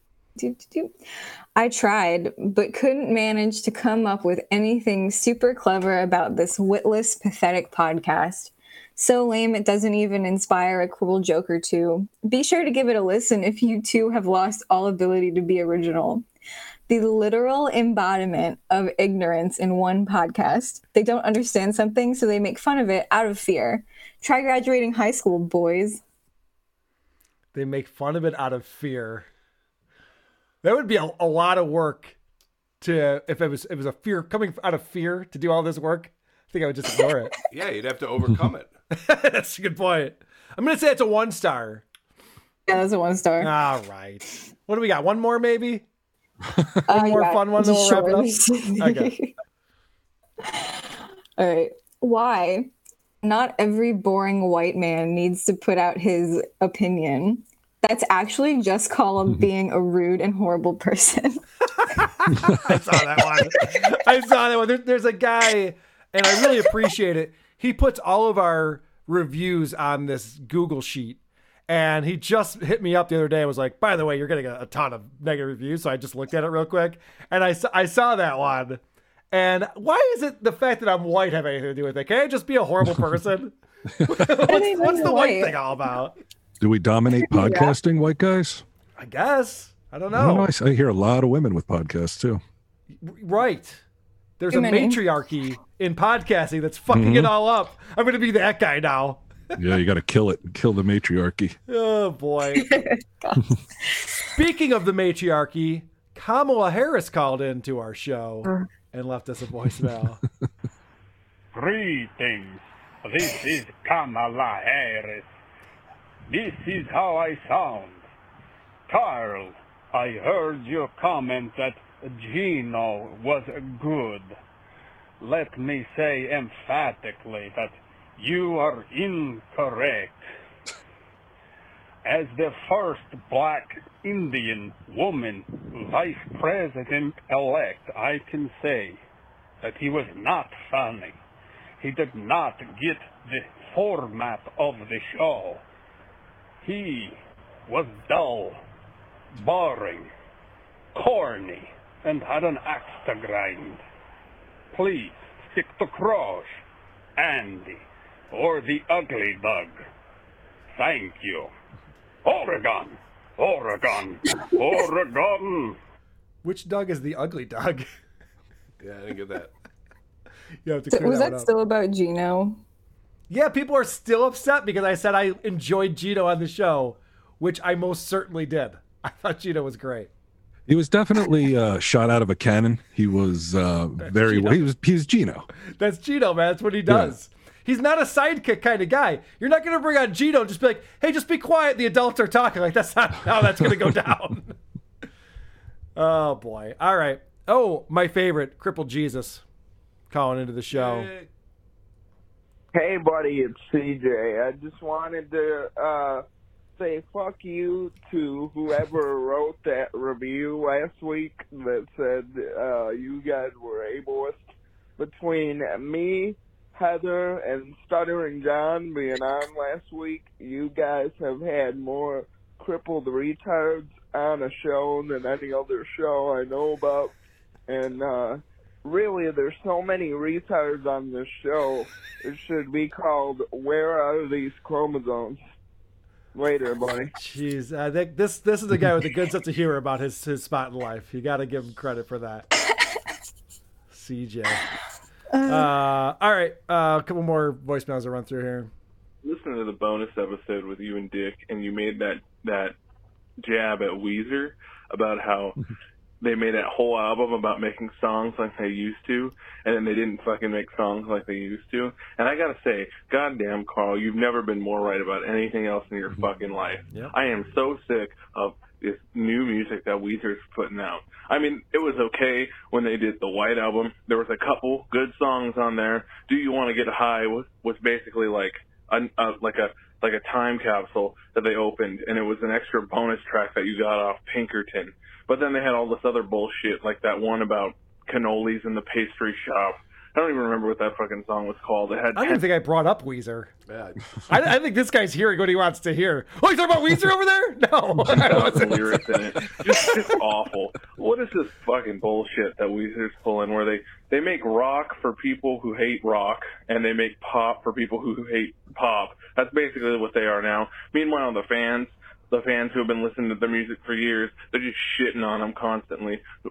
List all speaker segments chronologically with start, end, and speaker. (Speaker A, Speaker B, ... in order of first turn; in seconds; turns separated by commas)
Speaker A: 0.4-1.0, Speaker A: 1.6-16.2, Speaker A: 16.9-26.0, Speaker B: 27.5-29.3, Speaker B: 30.6-32.1, Speaker B: 32.8-37.3, Speaker C: 37.5-38.7, Speaker B: 38.9-41.8, Speaker A: 42.7-43.5, Speaker B: 43.4-45.8, Speaker B: 46.9-49.1, Speaker A: 46.9-49.3, Speaker A: 50.4-52.7, Speaker A: 53.2-61.4, Speaker B: 62.0-78.8, Speaker A: 66.4-66.7, Speaker B: 79.3-83.5, Speaker B: 84.1-86.2, Speaker A: 84.5-85.6, Speaker D: 86.6-88.6, Speaker A: 87.2-87.8, Speaker B: 89.0-90.5, Speaker D: 90.1-92.4, Speaker B: 93.0-93.8, Speaker B: 94.4-99.2, Speaker A: 94.5-95.0, Speaker D: 96.9-97.3, Speaker D: 99.6-101.6, Speaker B: 101.7-102.8, Speaker A: 102.5-103.4, Speaker B: 104.3-110.2, Speaker E: 111.5-115.3, Speaker E: 116.3-118.0, Speaker E: 118.9-124.4, Speaker E: 125.2-130.2, Speaker E: 132.1-139.0, Speaker E: 139.6-141.2, Speaker E: 141.8-145.6, Speaker E: 146.6-147.2, Speaker E: 147.7-148.6, Speaker E: 149.3-150.1, Speaker E: 150.9-153.8, Speaker E: 154.7-156.5, Speaker E: 157.2-159.8, Speaker E: 160.8-161.5, Speaker E: 162.2-165.8, Speaker B: 166.4-167.8, Speaker C: 168.8-169.5, Speaker B: 170.7-171.5, Speaker A: 170.9-172.6, Speaker B: 173.3-180.1, Speaker D: 180.7-185.5, Speaker B: 184.0-184.7, Speaker B: 185.8-194.6, Speaker D: 186.9-187.1, Speaker B: 196.0-199.4, Speaker B: 200.1-201.1, Speaker C: 200.7-201.3, Speaker F: 202.7-206.2, Speaker F: 206.8-214.4, Speaker F: 215.0-227.1, Speaker F: 227.7-235.4, Speaker F: 236.3-237.1, Speaker B: 237.2-242.5, Speaker B: 243.9-244.7, Speaker A: 245.3-245.7, Speaker B: 245.5-248.7, Speaker G: 249.2-252.7, Speaker G: 253.4-255.6, Speaker G: 256.2-292.4, Speaker B: 292.1-293.5, Speaker C: 293.7-294.0, Speaker B: 294.3-298.9, Speaker G: 298.2-316.2